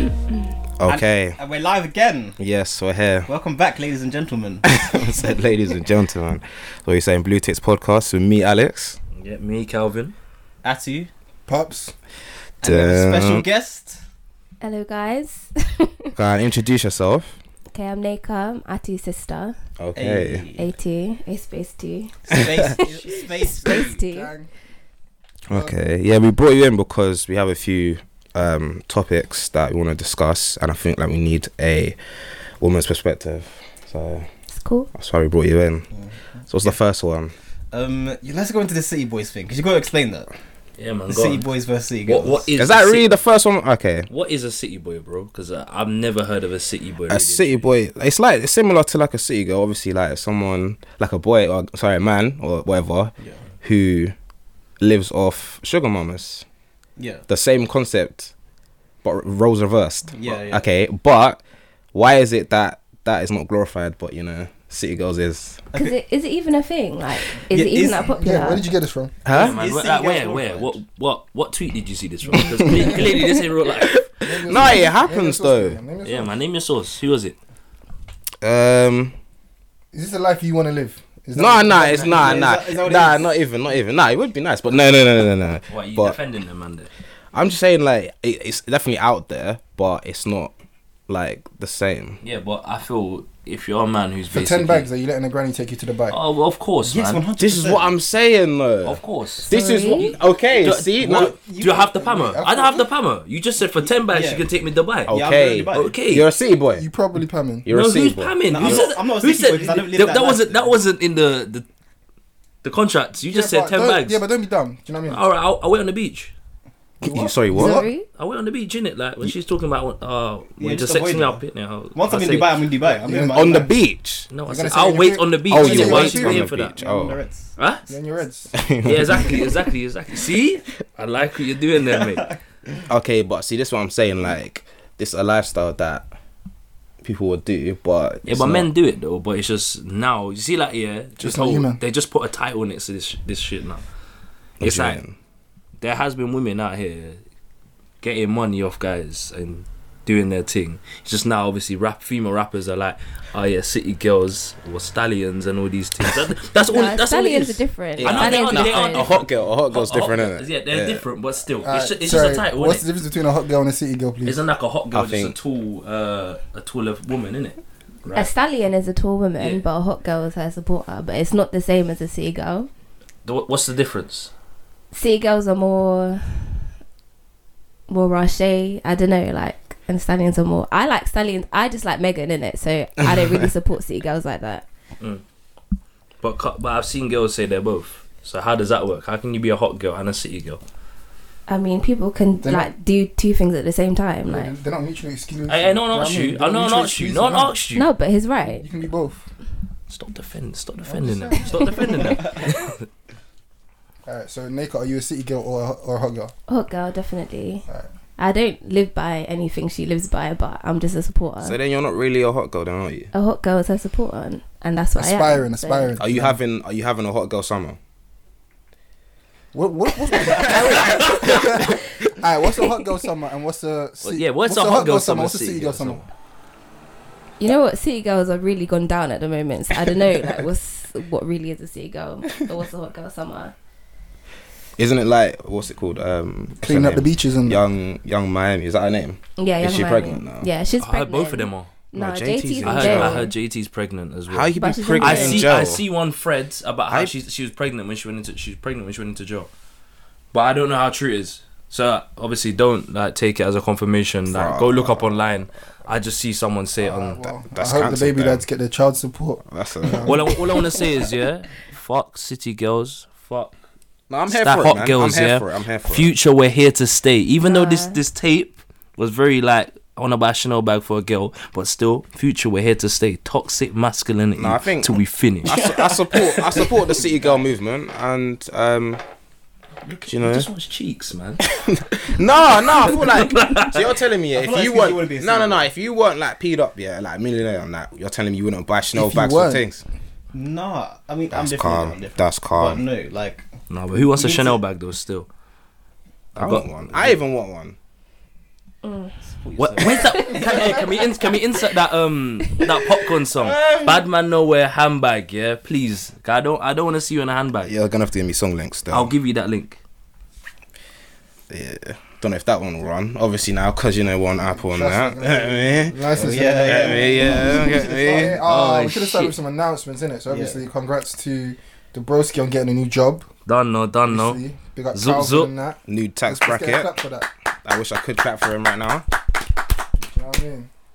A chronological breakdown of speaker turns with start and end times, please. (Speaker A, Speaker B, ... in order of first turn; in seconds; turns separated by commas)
Speaker A: 0.8-1.4, Speaker B: 0.9-2.4, Speaker A: 2.4-3.3, Speaker B: 3.3-4.7, Speaker A: 4.7-9.0, Speaker C: 9.2-10.1, Speaker B: 10.6-11.1, Speaker D: 11.5-11.9, Speaker B: 12.6-14.0, Speaker A: 12.6-13.4, Speaker E: 14.6-16.1, Speaker A: 16.1-17.4, Speaker E: 17.7-19.5, Speaker A: 19.8-20.4, Speaker B: 19.9-20.7, Speaker E: 20.5-24.3, Speaker B: 22.3-24.0, Speaker D: 24.0-24.5, Speaker A: 25.5-34.2, Speaker D: 25.5-25.8, Speaker E: 34.5-34.9, Speaker A: 34.9-35.9, Speaker B: 35.9-36.8, Speaker A: 36.5-37.3, Speaker B: 37.7-40.3, Speaker C: 40.8-41.5, Speaker B: 41.1-42.5, Speaker C: 42.1-43.1, Speaker A: 42.6-44.1, Speaker C: 44.1-47.7, Speaker A: 47.1-54.1, Speaker A: 54.8-56.4, Speaker B: 57.0-57.2, Speaker A: 57.3-58.3, Speaker A: 59.0-61.4, Speaker B: 60.1-60.6, Speaker A: 61.9-65.6, Speaker E: 65.7-68.6, Speaker B: 67.5-68.1, Speaker D: 68.0-69.1, Speaker A: 69.2-69.5, Speaker C: 69.3-74.0, Speaker B: 69.3-70.8, Speaker A: 72.6-72.9, Speaker D: 72.6-73.1, Speaker A: 73.7-75.8, Speaker D: 74.2-76.3, Speaker C: 76.0-77.3, Speaker A: 78.4-79.2, Speaker D: 79.9-82.3, Speaker A: 81.3-86.2, Speaker B: 82.0-83.3, Speaker C: 85.7-86.9, Speaker A: 87.3-90.5, Speaker A: 91.1-92.2, Speaker C: 92.2-94.9, Speaker D: 94.3-96.2, Speaker C: 96.1-97.2, Speaker B: 96.8-97.9, Speaker A: 97.4-101.3, Speaker C: 98.8-99.5, Speaker E: 99.5-100.1, Speaker C: 100.6-105.1, Speaker B: 101.0-102.1, Speaker D: 102.0-102.8, Speaker B: 104.0-104.5, Speaker B: 105.1-106.0, Speaker A: 105.1-106.8, Speaker C: 105.7-106.3, Speaker D: 106.8-107.7, Speaker A: 107.6-108.9, Speaker C: 107.7-111.6, Speaker B: 108.5-110.7, Speaker C: 112.6-114.2, Speaker D: 113.3-115.2, Speaker C: 115.1-116.3, Speaker D: 117.0-117.7, Speaker A: 117.0-117.9, Speaker E: 117.5-118.0, Speaker C: 118.1-122.8, Speaker B: 120.6-121.4, Speaker B: 121.9-123.7, Speaker D: 123.1-123.6, Speaker A: 123.1-124.3, Speaker C: 124.3-126.7, Speaker D: 124.5-126.5, Speaker A: 125.5-127.2, Speaker B: 126.8-127.6, Speaker C: 127.6-127.9, Speaker D: 127.9-128.6, Speaker A: 128.6-129.5, Speaker C: 128.8-132.3, Speaker B: 131.8-132.3, Speaker A: 132.9-136.1, Speaker A: 137.0-138.7, Speaker C: 138.3-143.8, Speaker D: 141.2-141.8, Speaker A: 144.6-145.1, Speaker C: 144.6-145.0, Speaker C: 145.8-147.2, Speaker C: 148.0-162.8, Speaker E: 156.7-159.2, Speaker A: 158.0-161.0, Speaker D: 161.6-164.4, Speaker C: 164.2-168.3, Speaker A: 164.9-165.3, Speaker E: 168.1-172.7, Speaker C: 173.2-174.3, Speaker E: 174.9-176.7, Speaker E: 177.9-184.6, Speaker A: 183.1-183.3, Speaker C: 186.2-190.6, Speaker E: 191.5-194.5, Speaker D: 192.4-192.7, Speaker D: 194.2-197.5, Speaker C: 195.5-197.9, Speaker E: 197.7-198.6, Speaker D: 198.6-199.2, Speaker C: 199.9-202.8, Speaker D: 200.9-202.0, Speaker D: 204.1-206.3, Speaker E: 206.5-207.6, Speaker E: 208.2-211.5, Speaker A: 211.4-213.1, Speaker E: 213.1-215.9, Speaker D: 215.0-216.4, Speaker A: 216.0-217.8, Speaker D: 219.5-226.0, Speaker A: 220.3-221.2, Speaker C: 224.0-226.1, Speaker E: 227.4-233.5, Speaker A: 234.8-240.5, Speaker D: 236.6-237.6, Speaker E: 239.4-243.3, Speaker C: 240.8-241.7, Speaker A: 241.9-243.3, Speaker C: 242.6-249.5, Speaker A: 244.3-245.8, Speaker E: 244.6-245.7, Speaker C: 250.3-257.3, Speaker A: 254.2-255.2, Speaker D: 256.8-260.8, Speaker A: 257.5-258.4, Speaker A: 259.5-260.2, Speaker C: 260.0-263.5, Speaker A: 264.1-266.1, Speaker C: 264.3-275.6, Speaker E: 267.4-267.9, Speaker A: 274.4-279.0, Speaker B: 275.5-277.4, Speaker C: 279.9-281.4, Speaker A: 280.1-280.5, Speaker A: 281.5-289.8, Speaker C: 282.7-284.0, Speaker B: 284.3-285.7, Speaker D: 288.9-289.6, Speaker B: 290.3-293.4, Speaker A: 291.3-292.8, Speaker C: 293.7-295.3, Speaker B: 294.1-294.6, Speaker C: 296.3-297.2, Speaker A: 296.4-297.8, Speaker E: 298.8-299.1, Speaker B: 299.2-300.9, Speaker C: 299.6-307.7, Speaker A: 303.3-304.0, Speaker A: 307.6-309.1, Speaker C: 308.9-309.8, Speaker A: 311.5-318.4, Speaker D: 314.6-323.3, Speaker B: 316.1-317.8, Speaker C: 318.4-319.3, Speaker B: 320.3-320.6, Speaker C: 323.4-324.4, Speaker D: 324.1-327.3, Speaker C: 324.9-325.5, Speaker A: 325.9-326.9, Speaker A: 327.6-329.1, Speaker D: 330.0-330.7